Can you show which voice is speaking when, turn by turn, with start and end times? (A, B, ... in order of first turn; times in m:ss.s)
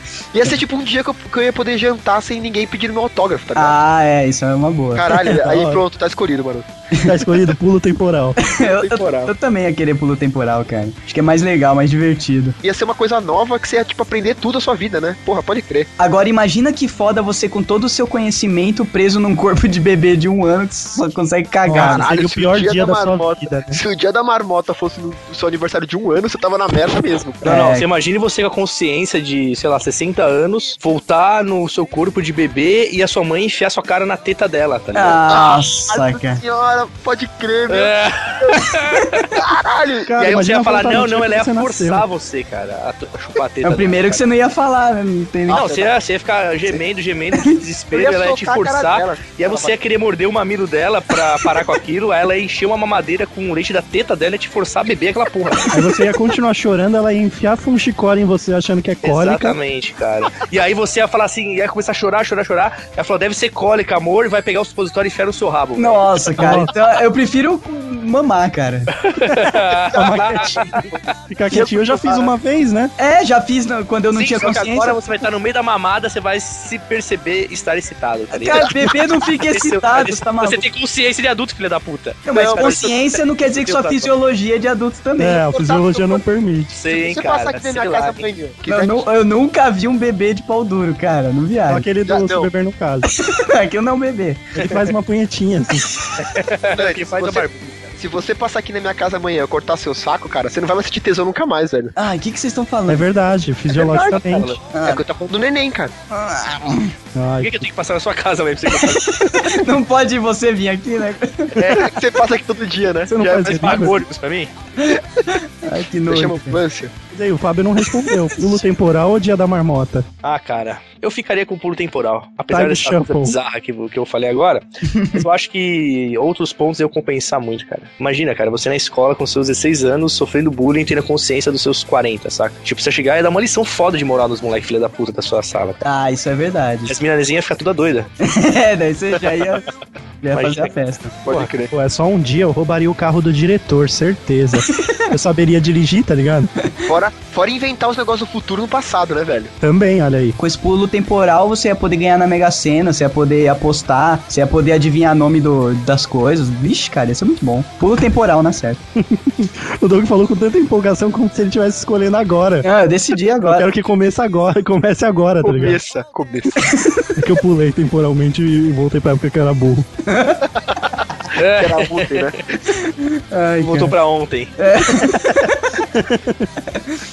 0:00.3-0:03.8 A
0:03.5-0:05.0 B
0:04.9-0:06.7 A
0:05.1-0:05.8 C
0:06.9-0:07.2 B
0:07.0-0:08.4 C
0:08.4-0:12.6 B
0:08.6-0:09.3 A
0:12.6-0:15.9 A
0:16.0-0:22.0 B
0:21.6-0:23.8 C
0:21.8-0:22.1 D
0:21.8-0:27.5 A
0:27.4-0:27.8 B
0:27.4-0:35.2 D
0:34.9-0:36.4 B
0:35.3-0:38.7 A
0:37.7-0:39.2 D
0:39.3-0:40.2 A
0:40.0-0:42.0 C
0:40.2-0:44.2 D
0:43.6-0:45.7 B
0:45.5-0:45.9 A
0:45.5-0:55.8 D
0:47.9-0:49.8 A
0:55.7-0:59.6 C
0:59.0-1:06.7 D
1:05.8-1:08.9 B
1:06.4-1:06.7 C
1:09.0-1:10.7 D
1:09.3-1:12.9 C
1:10.4-1:11.0 A
1:11.5-1:12.3 A
1:13.0-1:15.0 B
1:14.1-1:24.1 D
1:18.3-1:20.6 B
1:22.2-1:25.5 B
1:22.3-1:22.9 A
1:25.2-1:26.7 C
1:25.4-1:26.2 A
1:26.7-1:28.2 D
1:26.9-1:29.1 A
1:28.7-1:31.8 B
1:31.7-1:33.1 C
1:32.0-1:32.5 A
1:33.1-1:34.6 B
1:34.6-1:35.9 C
1:35.9-1:36.2 B
1:36.2-1:37.9 D
1:36.7-1:41.9 A
1:42.0-1:43.1 B
1:42.9-1:44.6 C
1:43.7-1:45.9 A
1:43.8-1:44.5 D
1:44.7-1:45.0 B
1:46.1-1:46.9 B
1:47.1-1:47.7 C
1:47.4-1:49.6 D
1:48.7-1:51.8 B
1:51.6-1:54.0 A
1:53.1-1:54.0 C
1:53.5-1:54.5 D
1:54.8-1:56.6 B
1:56.1-1:56.9 A
1:57.1-2:00.0 C
2:00.2-2:15.8 D
2:02.5-2:03.4 C
2:04.9-2:05.2 B
2:15.8-2:16.9 B
2:16.9-2:18.1 D
2:18.2-2:19.6 B
2:20.2-2:21.1 B
2:20.3-2:20.7 D
2:21.2-2:21.7 A
2:21.7-2:26.5 C
2:24.7-2:25.0 B
2:26.9-2:29.5 A
2:29.6-2:30.4 C
2:30.4-2:38.8 B
2:39.1-2:42.7 C
2:42.6-2:43.7 B
2:43.4-2:45.8 C
2:45.4-2:46.7 A
2:46.6-2:47.1 B
2:47.1-2:49.9 C
2:50.1-2:50.4 B
2:51.3-2:52.4 D
2:51.5-2:52.4 A
2:52.8-2:53.9 B
2:53.6-2:54.6 D
2:54.6-2:55.7 B
2:55.1-2:56.5 C